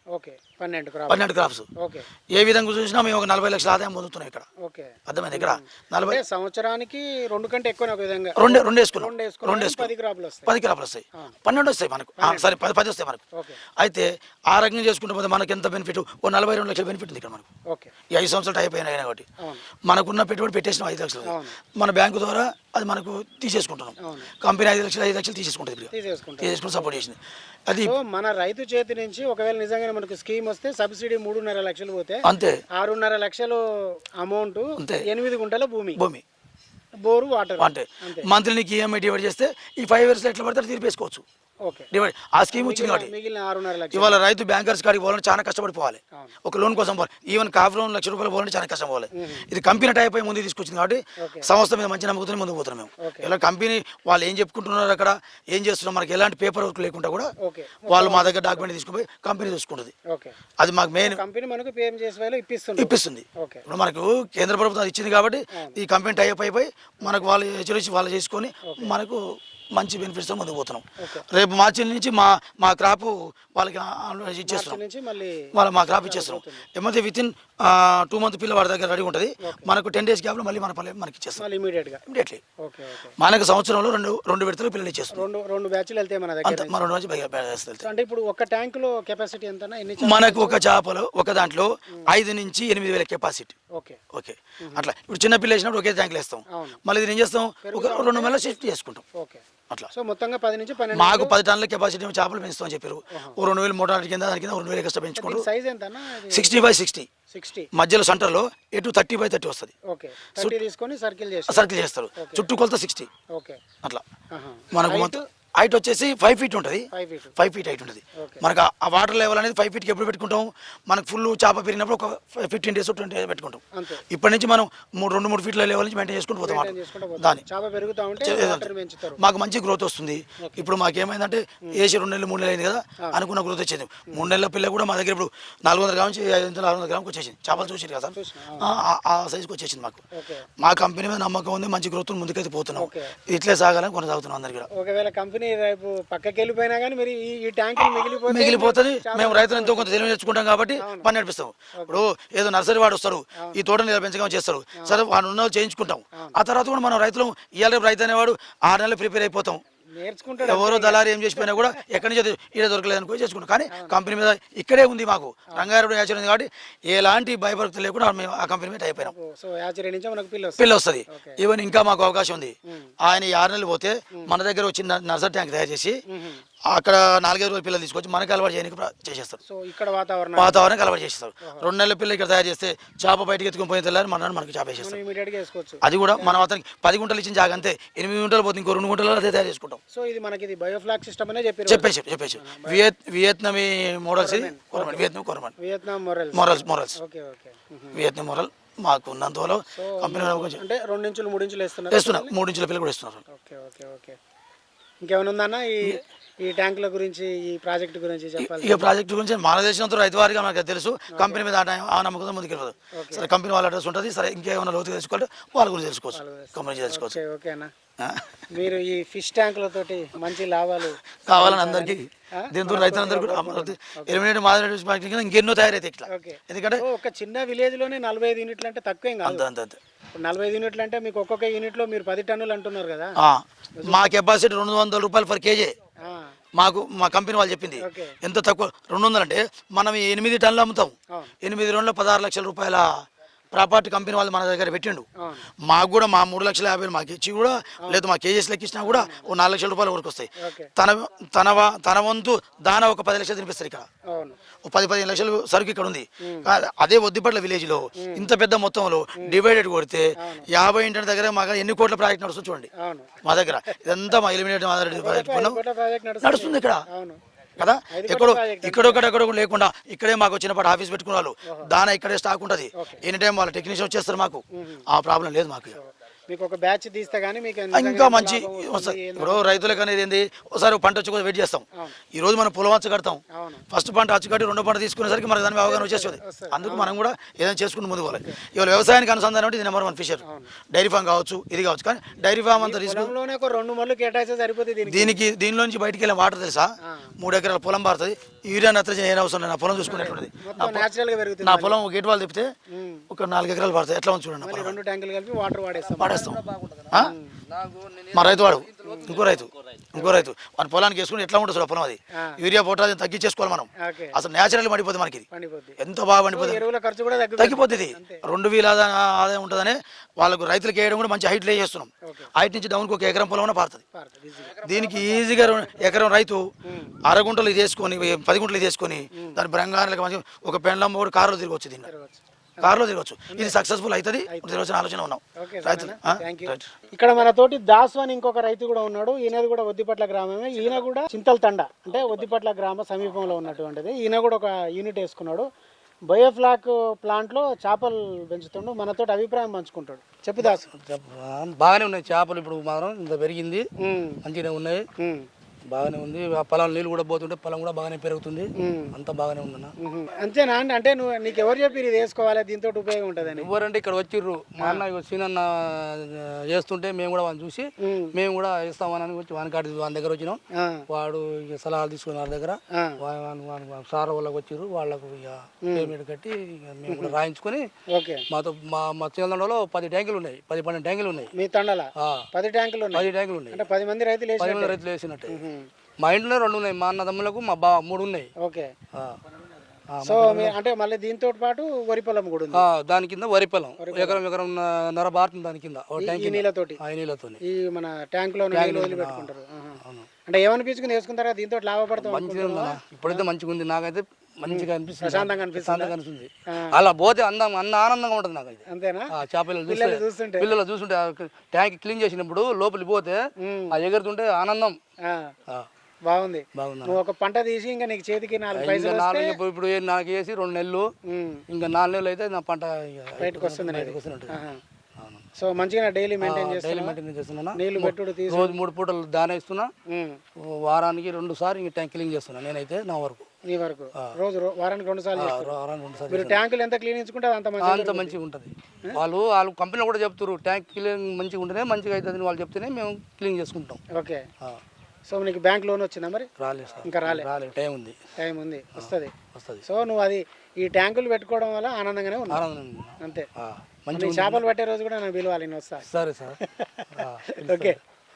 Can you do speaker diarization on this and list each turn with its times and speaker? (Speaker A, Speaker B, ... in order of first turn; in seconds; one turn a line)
Speaker A: 0.1-1.2
Speaker B: 1.1-1.7
Speaker A: 1.8-2.1
Speaker B: 2.3-4.5
Speaker A: 4.6-10.6
Speaker B: 5.1-6.2
Speaker B: 8.3-9.9
Speaker B: 10.5-13.2
Speaker A: 12.2-12.5
Speaker A: 13.3-13.6
Speaker B: 13.8-17.5
Speaker A: 17.7-17.9
Speaker B: 18.1-19.3
Speaker B: 19.9-27.9
Speaker A: 21.2-21.6
Speaker A: 24.0-24.3
Speaker A: 25.9-27.0
Speaker A: 27.8-36.0
Speaker B: 32.2-32.6
Speaker B: 34.8-35.0
Speaker B: 36.0-36.2
Speaker A: 37.0-38.3
Speaker B: 37.6-41.2
Speaker A: 41.6-41.9
Speaker B: 41.9-43.1
Speaker A: 42.5-44.2
Speaker B: 43.9-57.3
Speaker A: 49.1-49.5
Speaker A: 51.2-51.5
Speaker A: 53.0-53.3
Speaker A: 57.4-58.7
Speaker B: 57.9-59.9
Speaker A: 60.1-60.4
Speaker B: 60.6-61.2
Speaker A: 61.0-63.6
Speaker B: 62.8-74.8
Speaker A: 68.6-68.9
Speaker A: 71.0-71.2
Speaker A: 74.5-76.7
Speaker B: 75.5-81.4
Speaker A: 79.4-79.7
Speaker A: 81.4-82.0
Speaker B: 82.0-82.4
Speaker A: 82.6-83.1
Speaker B: 83.2-85.2
Speaker A: 85.1-86.9
Speaker B: 86.4-87.8
Speaker A: 87.8-90.6
Speaker B: 90.0-93.5
Speaker A: 93.7-94.0
Speaker B: 94.1-99.0
Speaker A: 94.6-94.9
Speaker A: 96.5-96.8
Speaker A: 97.6-98.5
Speaker A: 99.2-101.3
Speaker B: 100.9-105.4
Speaker A: 105.2-106.6
Speaker B: 106.3-107.1
Speaker A: 107.3-107.7
Speaker B: 107.7-109.7
Speaker A: 109.9-112.5
Speaker B: 111.5-113.1
Speaker A: 113.3-113.6
Speaker A: 114.3-115.2
Speaker B: 114.7-127.4
Speaker A: 116.9-117.3
Speaker A: 118.2-118.4
Speaker A: 123.7-124.0
Speaker A: 126.4-129.2
Speaker B: 128.2-140.0
Speaker A: 130.4-130.7
Speaker A: 138.1-138.7
Speaker A: 140.1-140.5
Speaker B: 140.6-144.7
Speaker A: 142.8-143.2
Speaker A: 144.7-150.1
Speaker B: 148.2-159.6
Speaker A: 150.8-151.1
Speaker A: 151.8-152.0
Speaker A: 153.4-153.6
Speaker A: 159.9-161.8
Speaker B: 160.4-169.1
Speaker A: 163.7-164.0
Speaker A: 169.0-171.4
Speaker B: 170.6-176.0
Speaker A: 176.1-176.4
Speaker B: 176.7-179.4
Speaker A: 179.4-180.7
Speaker B: 180.3-185.0
Speaker A: 184.8-186.4
Speaker B: 185.8-189.8
Speaker A: 189.9-192.8
Speaker B: 191.7-195.5
Speaker A: 194.2-195.1
Speaker A: 195.6-198.0
Speaker B: 196.3-197.0
Speaker B: 197.9-200.6
Speaker A: 199.7-202.3
Speaker B: 201.9-203.2
Speaker A: 203.3-204.2
Speaker A: 205.0-208.9
Speaker B: 208.4-217.2
Speaker A: 211.1-211.4
Speaker A: 212.9-213.3
Speaker A: 216.1-217.7
Speaker B: 218.0-218.4
Speaker A: 218.5-224.2
Speaker B: 221.2-226.8
Speaker A: 226.1-229.4
Speaker B: 229.2-229.8
Speaker A: 230.1-233.2
Speaker B: 233.2-235.7
Speaker A: 233.8-234.1
Speaker A: 236.0-236.3
Speaker B: 236.6-245.1
Speaker A: 237.8-238.2
Speaker A: 245.2-245.4
Speaker B: 245.7-253.9
Speaker A: 248.8-249.3
Speaker A: 250.4-250.7
Speaker A: 254.1-254.4
Speaker B: 254.6-262.7
Speaker A: 256.2-256.5
Speaker A: 258.0-258.3
Speaker A: 260.2-260.5
Speaker A: 262.8-263.8
Speaker B: 263.2-265.6
Speaker A: 264.9-267.2
Speaker B: 266.2-266.8
Speaker B: 267.6-275.8
Speaker A: 267.9-269.0
Speaker A: 271.4-271.7
Speaker A: 274.6-274.9
Speaker A: 275.7-279.8
Speaker B: 277.7-293.1
Speaker A: 283.3-283.6
Speaker A: 285.6-286.9
Speaker A: 288.1-288.4
Speaker A: 290.2-290.5
Speaker A: 292.5-295.1
Speaker B: 294.9-300.9
Speaker A: 296.8-297.1
Speaker A: 299.8-301.8
Speaker B: 301.4-302.5
Speaker A: 302.7-303.1
Speaker B: 303.1-304.8
Speaker A: 304.4-306.3
Speaker C: 305.9-309.5
Speaker B: 306.0-307.1
Speaker A: 307.0-307.3
Speaker B: 308.1-315.2
Speaker A: 308.8-309.2
Speaker A: 309.9-310.3
Speaker A: 313.8-314.2
Speaker A: 315.3-315.8
Speaker B: 315.8-316.6
Speaker A: 316.3-318.2
Speaker B: 317.4-323.8
Speaker A: 322.1-322.3
Speaker A: 323.9-324.7
Speaker B: 324.6-326.4
Speaker C: 324.7-325.6
Speaker A: 326.6-326.9
Speaker B: 327.0-331.9
Speaker A: 331.9-333.6
Speaker B: 332.6-336.7
Speaker A: 334.3-334.6
Speaker A: 335.4-345.5
Speaker A: 346.1-350.7
Speaker C: 350.4-353.7
Speaker A: 353.8-354.2
Speaker C: 354.2-354.8
Speaker A: 355.0-355.3
Speaker C: 355.7-359.7
Speaker A: 358.6-358.9
Speaker A: 359.8-363.5
Speaker C: 363.2-377.6
Speaker A: 364.6-364.8
Speaker A: 367.8-368.1
Speaker A: 370.5-370.9
Speaker A: 372.7-373.0
Speaker A: 375.6-375.9
Speaker A: 376.9-377.2
Speaker A: 377.9-378.2
Speaker C: 378.3-381.3
Speaker A: 381.3-385.7
Speaker C: 382.0-382.2
Speaker C: 382.9-383.6
Speaker C: 384.4-385.4
Speaker C: 386.0-388.3
Speaker A: 388.4-388.7
Speaker C: 389.9-390.5
Speaker A: 390.0-392.6
Speaker C: 392.5-397.4
Speaker A: 393.8-394.2
Speaker A: 396.0-396.8
Speaker A: 397.4-403.3
Speaker C: 398.5-399.3
Speaker C: 399.8-400.1
Speaker C: 402.0-413.2
Speaker A: 404.5-405.9
Speaker A: 406.5-406.8
Speaker A: 408.7-409.1
Speaker A: 409.6-410.5
Speaker A: 413.4-413.8
Speaker C: 413.7-414.8
Speaker A: 415.1-415.3
Speaker A: 416.1-419.4
Speaker C: 416.5-417.0
Speaker C: 418.5-420.9
Speaker A: 421.1-421.4
Speaker C: 421.5-424.4
Speaker A: 423.2-424.6
Speaker A: 425.4-427.0
Speaker C: 426.2-429.7
Speaker A: 427.5-428.6
Speaker A: 429.9-430.2
Speaker C: 430.4-433.3
Speaker A: 433.4-435.5
Speaker C: 435.1-436.4
Speaker A: 436.1-438.2
Speaker C: 437.6-443.8
Speaker A: 443.9-444.2
Speaker A: 445.1-446.3
Speaker C: 446.4-447.9
Speaker A: 446.8-447.3
Speaker A: 448.2-452.4
Speaker C: 448.8-449.6
Speaker C: 452.3-454.4
Speaker A: 453.0-453.3
Speaker A: 453.9-455.9
Speaker C: 455.9-456.4
Speaker A: 456.4-457.8
Speaker C: 456.9-457.8